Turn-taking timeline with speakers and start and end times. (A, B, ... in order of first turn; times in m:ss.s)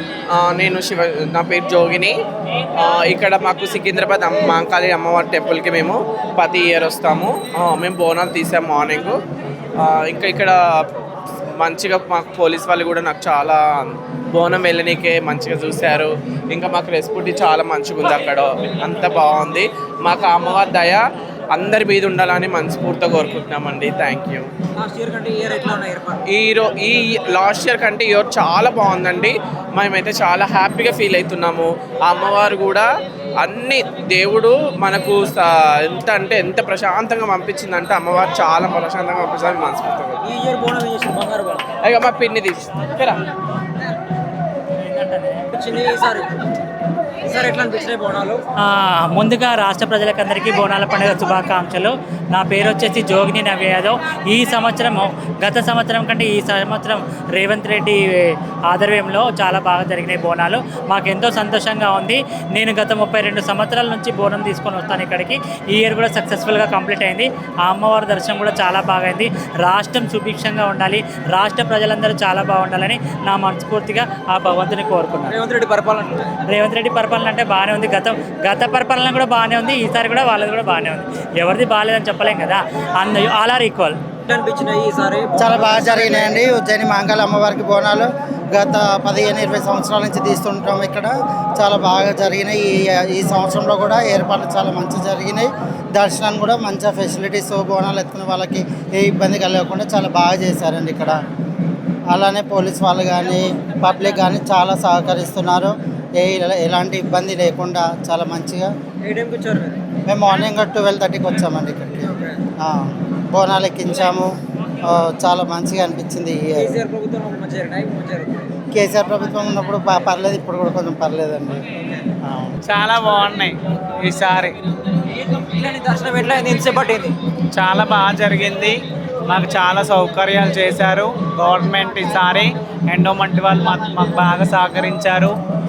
0:00.4-0:02.2 A
0:02.8-0:09.2 A
0:09.8-0:10.6 A
0:11.6-0:21.0 A
0:21.5-0:24.5 A
0:24.8-0:26.2 B
0:26.3-0:32.9 A
0:33.4-0:40.2 A
0:40.2-0:41.7 B
0:41.8-0:43.2 A
0:44.8-0:45.4 C
0:45.5-0:46.3 B
0:47.2-0:48.4 B
0:48.6-1:15.4 C
1:15.3-1:16.4 B
1:16.5-1:24.0 C
1:24.3-1:26.4 B
1:25.4-1:41.2 D
1:42.1-1:48.7 D
1:49.0-1:49.8 B
1:50.1-1:54.3 D
1:54.9-1:56.8 D
1:56.6-1:58.5 B
1:58.7-2:01.6 D
2:02.2-2:02.5 D
2:02.6-2:04.6 E
2:05.1-2:07.1 B
2:07.5-2:15.4 E